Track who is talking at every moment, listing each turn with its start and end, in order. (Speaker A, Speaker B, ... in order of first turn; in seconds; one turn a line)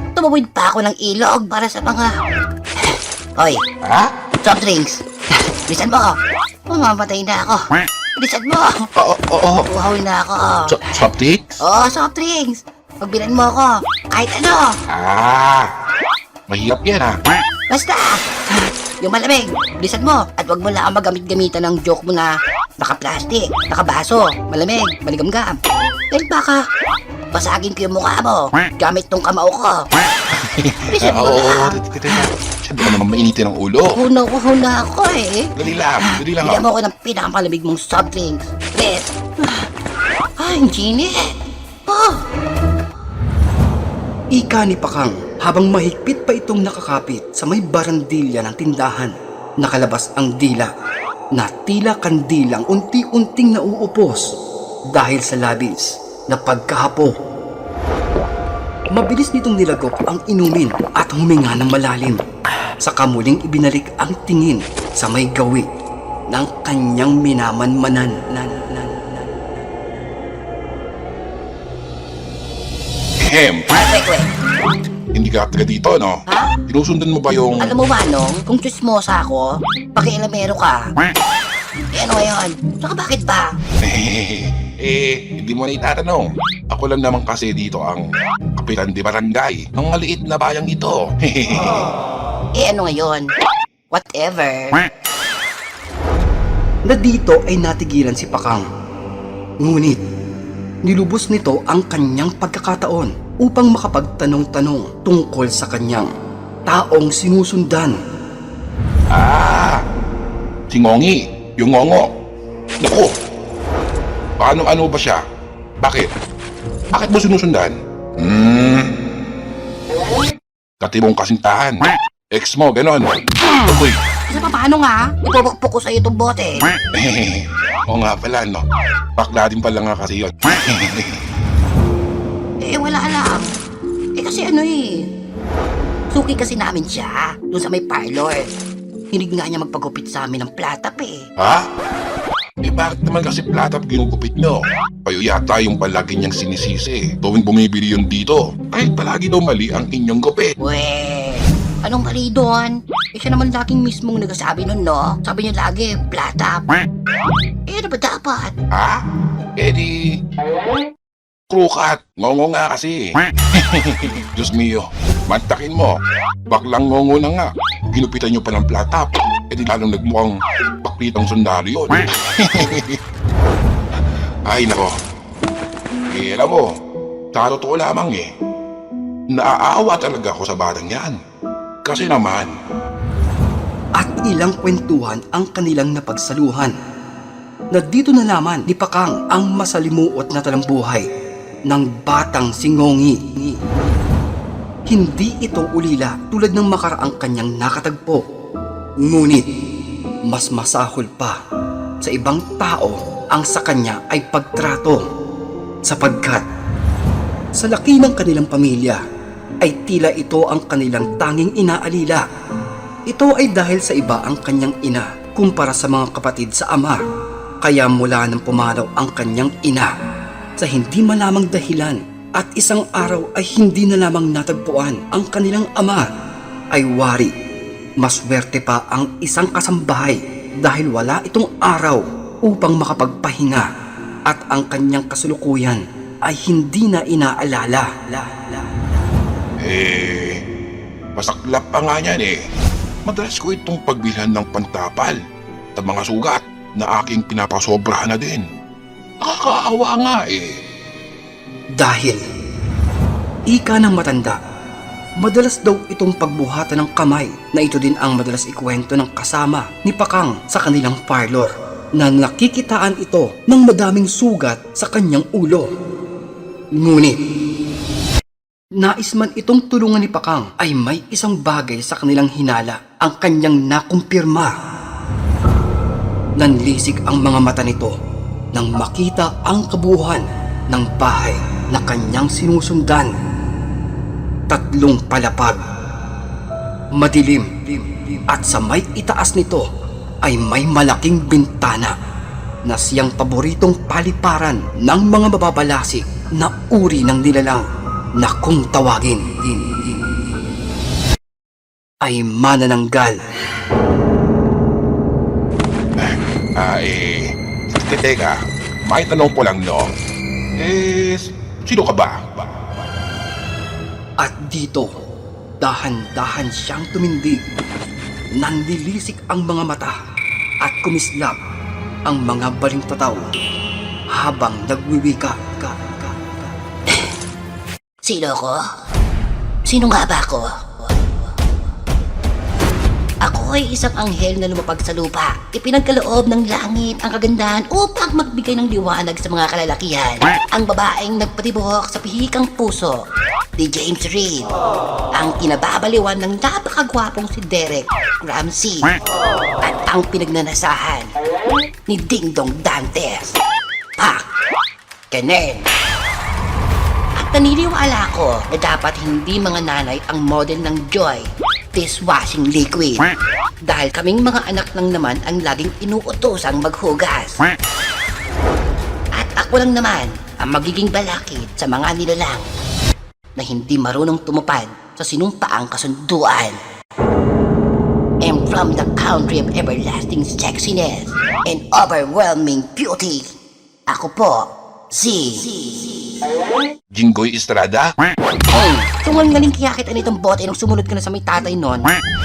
Speaker A: 0.1-2.1
Speaker A: 2.8-3.6
Speaker B: 3.8-4.1
Speaker A: 4.4-5.0
Speaker A: 5.5-6.2
Speaker A: 6.7-8.9
Speaker B: 8.9-9.7
Speaker A: 9.7-10.7
Speaker B: 10.7-11.6
Speaker A: 11.6-14.7
Speaker B: 14.9-15.7
Speaker B: 16.5-17.1
Speaker A: 17.7-25.6
Speaker A: 26.1-26.6
Speaker A: 27.3-29.8
Speaker B: 30.3-34.0
Speaker A: 30.9-31.8
Speaker A: 33.9-39.6
Speaker B: 35.5-36.6
Speaker A: 40.4-41.3
Speaker A: 41.9-42.2
Speaker C: 44.3-50.7
Speaker C: 51.3-54.2
Speaker C: 54.9-57.1
Speaker C: 58.9-62.2
Speaker C: 62.8-65.7
Speaker C: 66.3-69.2
Speaker B: 73.2-73.8
Speaker A: 73.7-74.3
Speaker B: 75.1-77.7
Speaker A: 76.3-76.5
Speaker A: 77.6-80.9
Speaker A: 81.9-83.5
Speaker B: 83.8-88.0
Speaker B: 88.5-91.9
Speaker A: 92.5-93.3
Speaker A: 93.9-94.8
Speaker C: 96.9-98.6
Speaker C: 99.6-100.0
Speaker C: 100.8-106.1
Speaker C: 106.7-108.0
Speaker B: 109.1-109.8
Speaker B: 110.7-112.1
Speaker B: 112.8-113.1
Speaker B: 114.4-115.2
Speaker B: 115.8-116.1
Speaker B: 116.9-118.9
Speaker B: 120.8-124.0
Speaker A: 123.4-123.7
Speaker A: 124.3-126.7
Speaker B: 127.0-128.6
Speaker B: 129.2-131.2
Speaker A: 132.6-133.5
Speaker A: 134.2-135.0
Speaker A: 136.1-138.5
Speaker A: 139.1-141.2
Speaker B: 141.4-141.7
Speaker B: 142.6-150.6
Speaker A: 150.6-156.7
Speaker A: 157.7-158.5
Speaker B: 158.7-159.0
Speaker B: 159.6-160.1
Speaker B: 161.5-166.0
Speaker B: 166.5-173.0
Speaker B: 174.4-174.9
Speaker B: 176.1-176.7
Speaker B: 177.3-178.3
Speaker B: 179.3-181.2
Speaker B: 181.8-182.5
Speaker C: 183.9-186.7
Speaker C: 187.7-191.1
Speaker C: 191.7-193.6
Speaker C: 194.9-198.2
Speaker C: 199.0-199.4
Speaker C: 200.3-201.4
Speaker C: 202.0-205.0
Speaker C: 205.8-206.4
Speaker C: 207.6-209.0
Speaker C: 209.6-212.2
Speaker C: 213.1-217.0
Speaker C: 217.6-219.9
Speaker C: 220.6-226.1
Speaker C: 226.7-227.3
Speaker C: 228.0-233.7
Speaker C: 234.3-238.8
Speaker B: 239.6-240.4
Speaker B: 241.2-242.4
Speaker B: 243.1-245.2
Speaker B: 245.8-248.4
Speaker B: 249.2-250.5
Speaker C: 251.8-252.2
Speaker C: 253.5-254.4
Speaker C: 255.2-265.7
Speaker C: 266.7-267.2
Speaker C: 268.8-274.5
Speaker C: 276.4-277.9
Speaker C: 278.5-283.1
Speaker C: 284.5-285.6
Speaker C: 286.9-289.7
Speaker C: 290.2-291.9
Speaker C: 292.6-297.6
Speaker C: 298.2-300.1
Speaker C: 302.0-303.2
Speaker B: 306.0-309.9
Speaker B: 310.6-312.5
Speaker C: 314.2-314.9
Speaker C: 315.6-317.4
Speaker C: 318.4-320.0
Speaker C: 320.6-321.4
Speaker C: 322.1-323.2
Speaker C: 324.1-326.5
Speaker A: 328.0-328.6
Speaker A: 329.7-331.1
Speaker A: 333.2-343.0
Speaker A: 343.6-344.5
Speaker A: 345.1-348.9
Speaker A: 349.6-351.1
Speaker A: 351.9-353.4
Speaker A: 354.0-354.2
Speaker A: 355.1-355.6
Speaker A: 357.2-363.0
Speaker A: 363.6-367.4
Speaker A: 369.1-372.4
Speaker A: 373.4-376.6
Speaker A: 378.2-383.3
Speaker A: 383.9-385.9
Speaker B: 386.9-387.9
Speaker A: 388.5-391.9